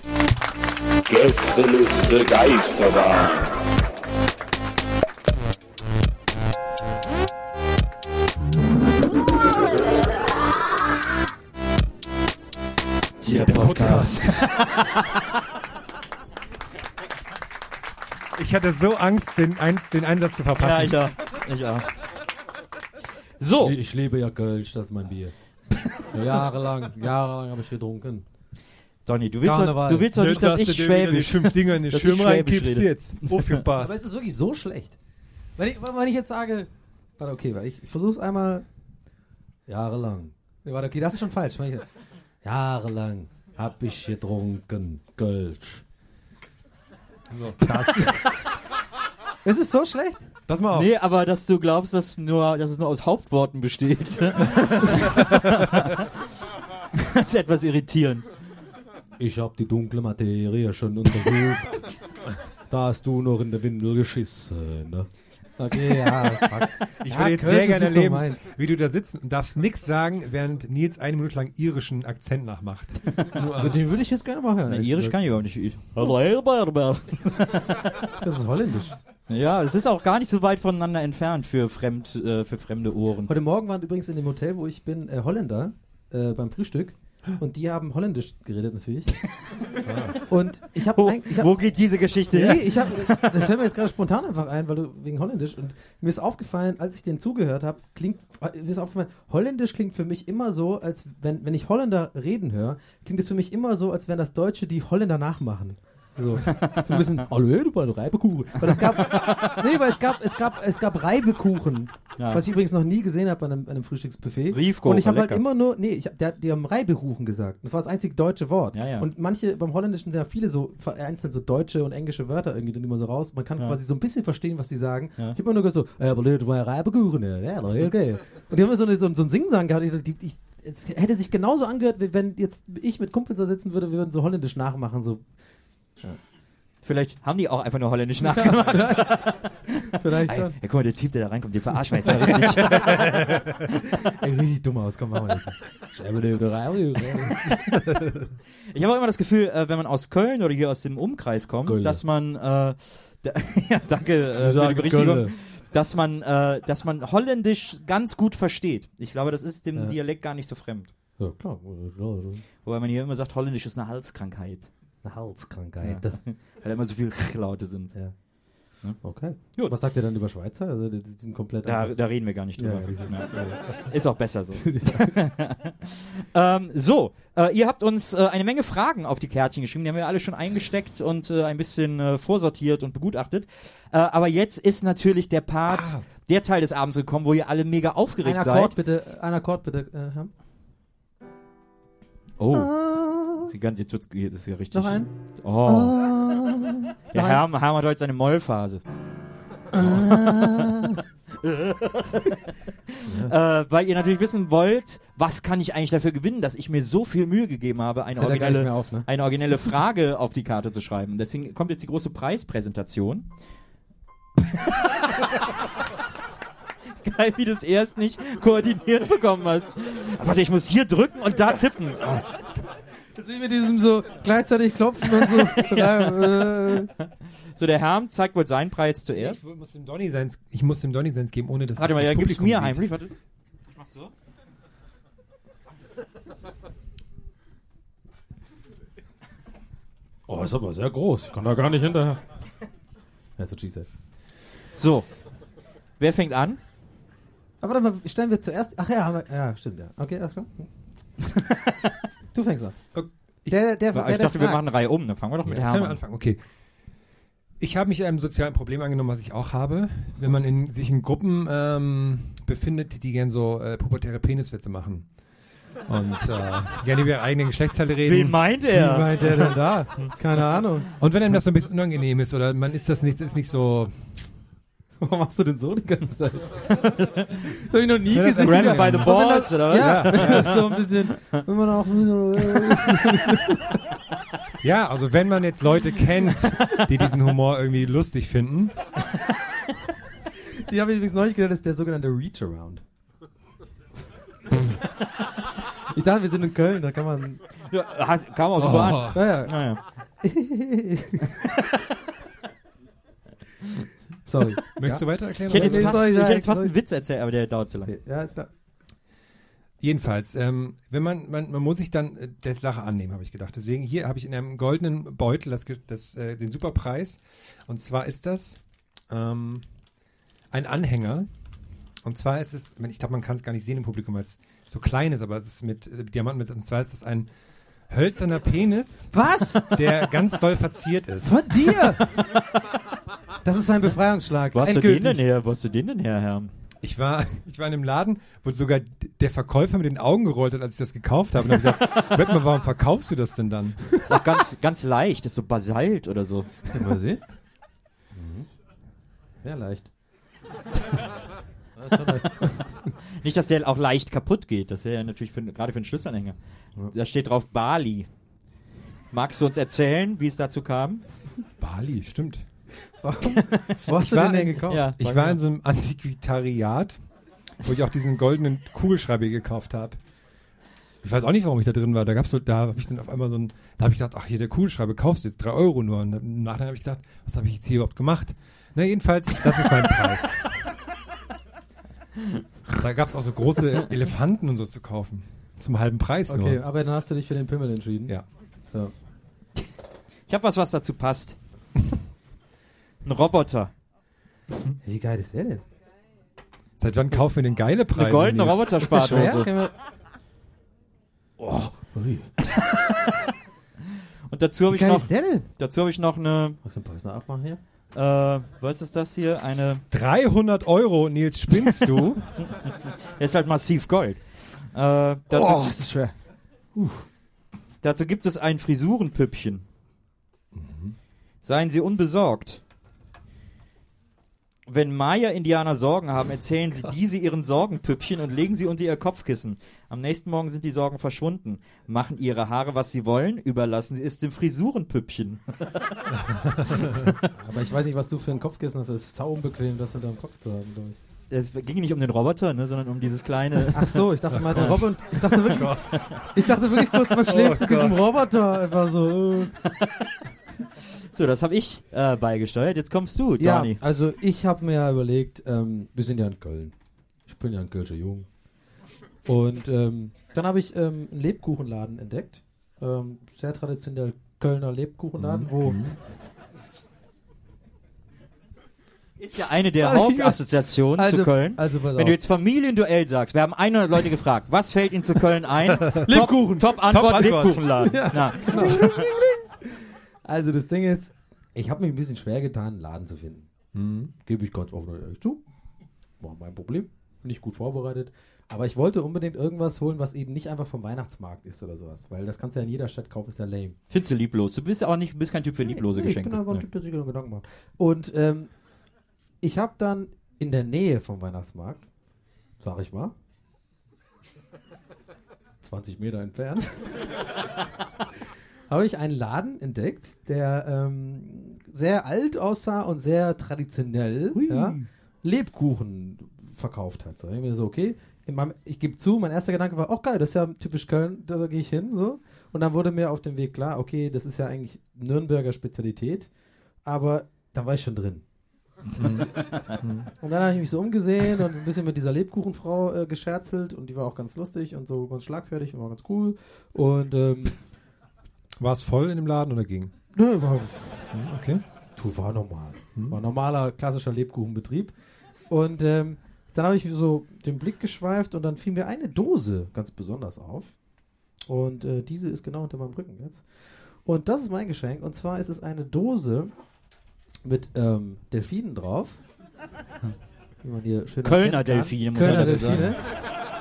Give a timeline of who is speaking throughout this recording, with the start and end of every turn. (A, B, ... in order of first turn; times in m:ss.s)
0:01.1-0:03.8 A
0:13.2-0:14.3 B
0:13.3-0:14.9 C
0:13.4-0:14.5 D
0:18.4-0:21.1 D
0:20.6-0:21.9 C
0:23.4-0:23.8 C
0:23.6-0:25.4 B
0:26.1-0:28.2 B
0:29.1-0:33.7 C
0:29.4-0:30.1 B
0:30.1-0:34.0 D
0:33.8-0:35.0 B
0:35.6-0:38.7 B
0:39.7-0:41.9 B
0:42.4-0:45.8 B
0:47.3-0:47.8 D
0:47.6-0:48.4 B
0:49.4-0:50.3 B
0:50.5-0:50.9 D
0:50.7-0:56.0 C
0:55.1-0:55.5 D
0:57.1-0:58.3 C
0:59.2-1:02.0 B
1:02.7-1:08.4 B
1:07.0-1:13.9 D
1:13.4-1:15.3 B
1:14.7-1:18.1 C
1:18.2-1:19.0 B
1:19.3-1:23.3 C
1:23.3-1:29.3 B
1:29.8-1:30.2 D
1:30.2-2:15.3 B
1:31.0-1:33.4 C
1:46.7-1:47.0 C
1:49.1-1:49.6 C
1:52.2-1:52.4 C
1:54.5-1:55.4 C
1:58.7-1:59.1 C
2:16.8-2:23.2 C
2:18.2-2:20.6 B
2:22.0-2:23.3 B
2:22.8-2:23.5 D
2:24.0-2:27.7 B
2:27.7-2:28.2 D
2:28.7-2:40.9 C
2:31.6-2:32.0 B
2:34.4-2:35.3 B
2:41.2-2:42.4 B
2:42.6-2:44.7 C
2:45.0-2:46.2 B
2:45.8-2:48.0 C
2:48.8-2:49.7 C
2:49.0-2:53.9 B
2:51.6-3:08.7 C
2:54.6-2:55.2 B
3:05.7-3:06.1 D
3:08.2-3:10.3 B
3:12.4-3:12.7 C
3:12.5-3:13.5 B
3:13.5-3:16.0 C
3:14.7-3:17.4 B
3:17.1-3:18.8 C
3:19.7-3:21.0 B
3:19.8-3:20.5 C
3:21.4-3:22.4 C
3:22.9-3:33.3 C
3:23.1-3:23.3 B
3:28.2-3:29.1 B
3:34.5-3:35.3 C
3:37.0-3:42.3 C
3:43.2-3:46.9 B
3:45.2-3:47.0 C
3:47.6-3:49.4 C
3:49.2-3:52.8 D
3:51.8-3:53.1 C
3:53.8-3:54.1 C
4:00.3-4:02.2 B
4:03.4-4:03.9 B
4:04.8-4:05.1 C
4:06.0-4:06.6 C
4:07.6-4:10.7 B
4:12.3-4:14.6 B
4:12.9-4:13.5 D
4:13.9-4:16.0 C
4:15.4-4:16.4 D
4:17.6-4:25.1 D
4:25.9-4:28.6 D
4:28.0-4:29.3 C
4:28.7-4:30.9 B
4:31.0-4:34.3 D
4:35.0-4:36.9 B
4:36.8-4:37.3 C
4:37.5-4:43.6 B
4:38.1-4:40.6 D
4:38.4-4:40.8 C
4:42.6-4:42.9 C
4:44.6-4:48.9 D
4:46.6-4:47.1 C
4:50.7-4:52.8 B
4:55.9-4:57.4 B
4:57.7-4:59.8 C
4:58.6-4:59.2 D
4:58.7-5:01.3 B
5:04.2-5:06.7 B
5:04.8-5:06.0 D
5:05.5-5:07.9 C
5:07.9-5:08.5 B
5:09.8-5:19.7 D
5:20.5-5:21.3 D
5:22.0-5:27.3 D
5:27.9-5:31.5 D
5:29.1-5:30.1 B
5:31.2-5:32.2 B
5:33.4-5:35.2 B
5:34.5-5:36.5 C
5:36.8-5:43.9 D
5:44.1-5:46.6 C
5:46.7-5:47.2 B
5:48.1-5:48.5 B
5:49.4-5:49.9 B
5:51.8-5:52.8 B
5:53.2-5:56.4 C
5:56.9-5:58.1 C
5:59.1-6:01.0 C
6:01.6-6:02.5 D
6:03.0-6:04.9 B
6:03.9-6:07.0 D
6:04.7-6:05.4 C
6:07.6-6:10.0 D
6:11.0-6:20.5 D
6:22.7-6:26.6 D
6:26.3-6:28.2 B
6:30.3-6:31.4 C
6:33.0-6:33.8 C
6:34.8-6:35.6 B
6:36.8-6:39.2 D
6:37.9-6:39.5 C
6:38.8-6:39.7 B
6:41.4-6:42.3 B
6:42.5-6:43.2 C
6:44.3-6:46.6 C
6:44.7-6:45.5 B
6:46.6-6:47.6 B
6:47.9-6:49.8 C
6:49.9-6:52.2 D
6:51.6-6:52.2 C
6:53.2-6:55.6 C
6:55.3-6:56.2 B
6:56.8-6:57.1 B
6:57.8-6:59.6 C
7:00.6-7:00.9 D
7:01.4-7:02.6 C
7:04.7-7:15.8 C
7:16.2-7:17.0 D
7:16.7-7:17.2 C
7:17.4-7:21.0 B
7:21.3-7:24.0 C
7:23.7-7:29.5 B
7:24.3-7:26.5 D
7:24.5-7:25.7 C
7:27.1-7:28.1 D
7:29.8-7:30.1 C
7:31.1-7:33.8 C
7:33.4-7:36.8 B
7:37.3-7:38.3 B
7:39.2-7:46.0 B
7:45.2-7:45.9 D
7:49.2-7:59.1 C
7:49.8-7:52.2 B
7:55.7-7:57.7 D
7:56.1-7:56.7 B
7:57.8-8:03.5 B
8:03.7-8:04.1 D
8:04.2-8:05.4 B
8:06.2-8:13.8 B
8:13.9-8:16.6 C
8:15.6-8:18.7 B
8:19.4-8:21.9 B
8:22.6-8:23.1 B
8:25.6-8:27.2 B
8:28.7-8:46.3 B
8:34.3-8:34.9 C
8:46.8-8:48.2 B
8:48.9-8:49.8 C
8:49.0-8:50.1 D
8:50.2-8:57.6 B
8:58.6-8:59.9 D
9:00.1-9:01.2 B
9:01.1-9:01.6 D
9:02.0-9:05.0 B
9:05.5-9:10.8 B
9:11.5-9:16.6 B
9:17.4-9:19.2 B
9:20.6-9:23.3 B
9:21.2-9:23.0 C
9:22.2-9:23.0 D